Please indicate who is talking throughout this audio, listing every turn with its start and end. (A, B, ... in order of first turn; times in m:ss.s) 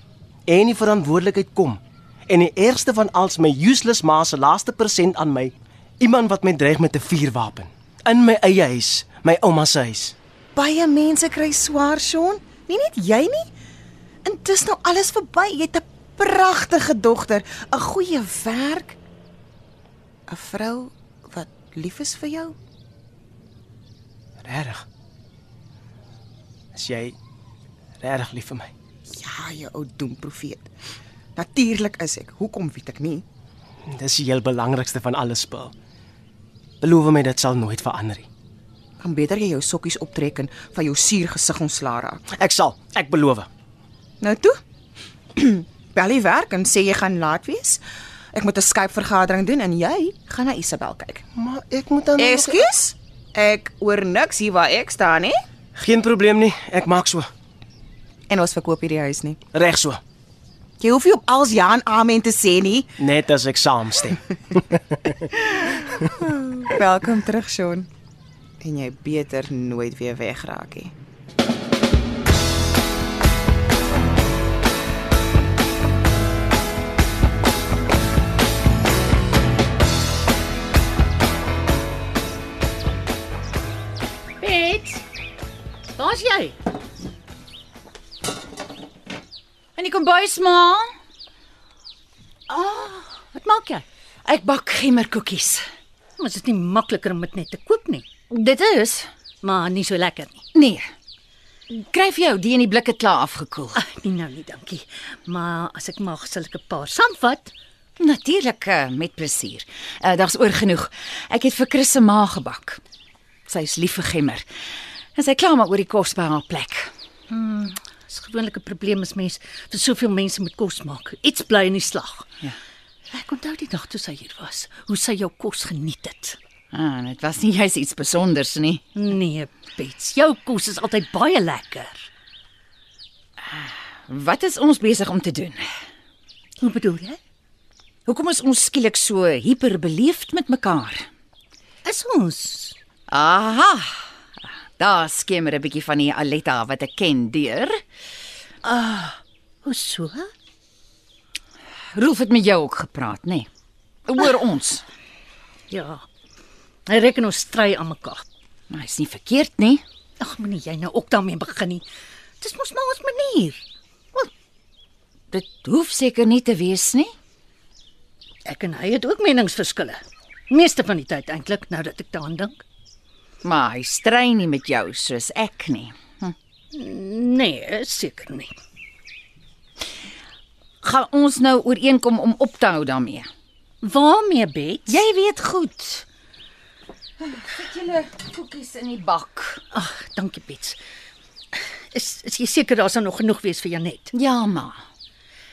0:00.5-0:10.1 A
0:10.6-0:13.5 B
0:14.2-0:19.0 B
0:20.3-0:22.5 B
0:24.4-0:24.8 A
0:26.7-0:27.1 A
0:28.0-0:28.7 A
0:29.2-0:30.7 B
0:31.4-0:33.2 B
0:33.9-0:35.7 A
0:36.8-0:38.3 A
0:39.0-0:42.2 B
0:42.3-0:43.5 A
0:44.2-0:44.5 B
0:45.4-0:47.8 B
0:48.3-0:51.2 B
0:51.3-0:52.6 A
0:52.2-0:55.3 B
0:55.8-0:57.3 A
0:58.3-0:59.4 B
0:59.5-1:00.0 A
1:00.8-1:02.9 B
1:03.0-1:04.8 A
1:06.2-1:07.9 B
1:08.6-1:10.9 B
1:24.4-1:25.0 C
1:26.1-1:26.4 C
1:29.8-1:30.8 C
1:32.5-1:35.6 C
1:36.2-1:38.1 D
1:38.3-1:39.1 C
1:39.4-1:40.4 D
1:40.6-1:40.8 C
1:41.7-1:43.7 C
1:43.7-1:47.5 D
1:48.0-1:52.8 C
1:53.5-1:54.4 C
1:55.2-1:56.9 C
1:57.3-2:02.2 D
2:03.1-2:06.4 D
2:06.7-2:08.8 C
2:09.0-2:12.0 D
2:13.5-2:15.6 C
2:16.6-2:17.2 D
2:18.1-2:21.0 C
2:21.8-2:22.7 D
2:23.1-2:24.0 C
2:24.8-2:27.8 C
2:28.6-2:30.3 D
2:31.9-2:33.5 C
2:34.1-2:34.8 C
2:35.7-2:36.0 D
2:36.9-2:38.2 D
2:38.7-2:39.8 C
2:40.2-2:41.8 D
2:42.4-2:43.6 D
2:45.3-2:47.1 C
2:48.5-2:50.0 D
2:50.5-2:52.6 D
2:53.4-2:56.3 C
2:56.7-2:58.5 D
3:00.8-3:03.2 C
3:03.8-3:05.0 D
3:04.9-3:06.0 C
3:07.4-3:09.6 C
3:09.7-3:10.8 D
3:11.9-3:14.1 D
3:14.2-3:14.8 C